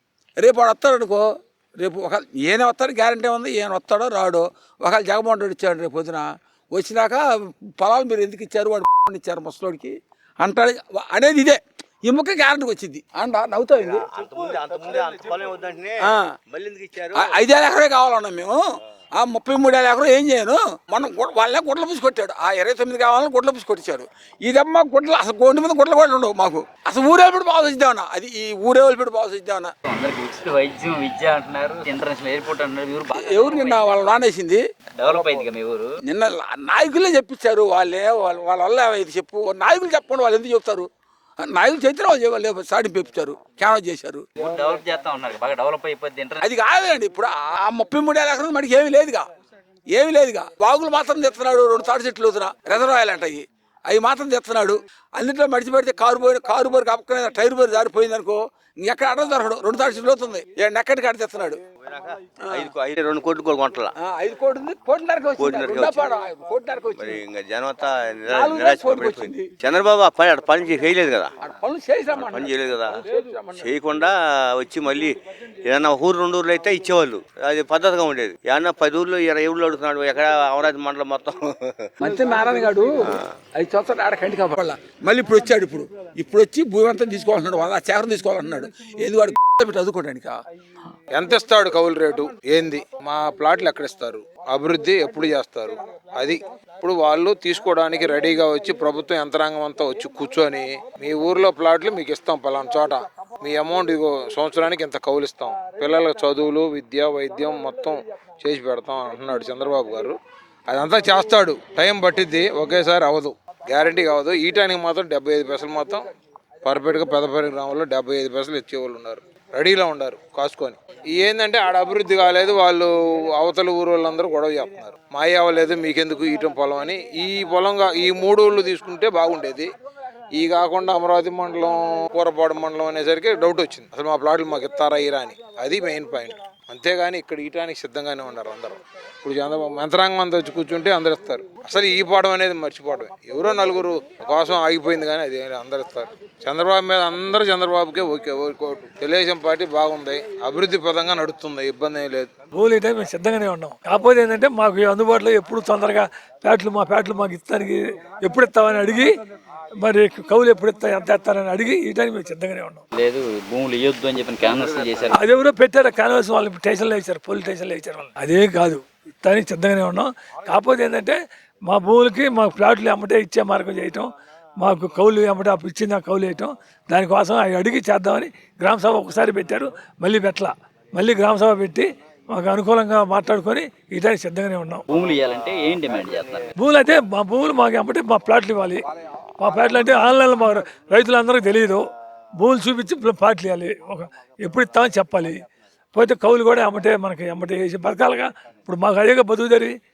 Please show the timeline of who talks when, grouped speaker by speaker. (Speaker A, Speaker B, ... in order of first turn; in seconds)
Speaker A: 0.4-1.2, 1.8-7.2, 7.8-14.1, 17.1-18.6, 19.2-29.7, 33.1-34.6, 36.0-40.9, 41.4-44.3, 46.4-49.2, 49.9-61.6, 62.5-62.7, 64.0-67.2, 68.3-69.5, 71.4-73.7, 82.0-90.4
Speaker B: 13.8-17.4, 61.9-63.9, 65.4-66.1, 67.0-71.3, 72.1-73.0, 73.6-82.0, 164.5-165.1
Speaker C: 29.9-34.1, 35.0-35.9, 44.4-46.5, 162.9-165.2, 184.9-186.5
Speaker D: 91.2-110.2, 110.7-116.1, 116.6-129.7, 130.3-152.3
Speaker E: 152.5-159.2, 159.8-162.8, 165.1-184.9, 186.6-188.8, 189.4-191.8, 192.4-195.4, 195.9-199.8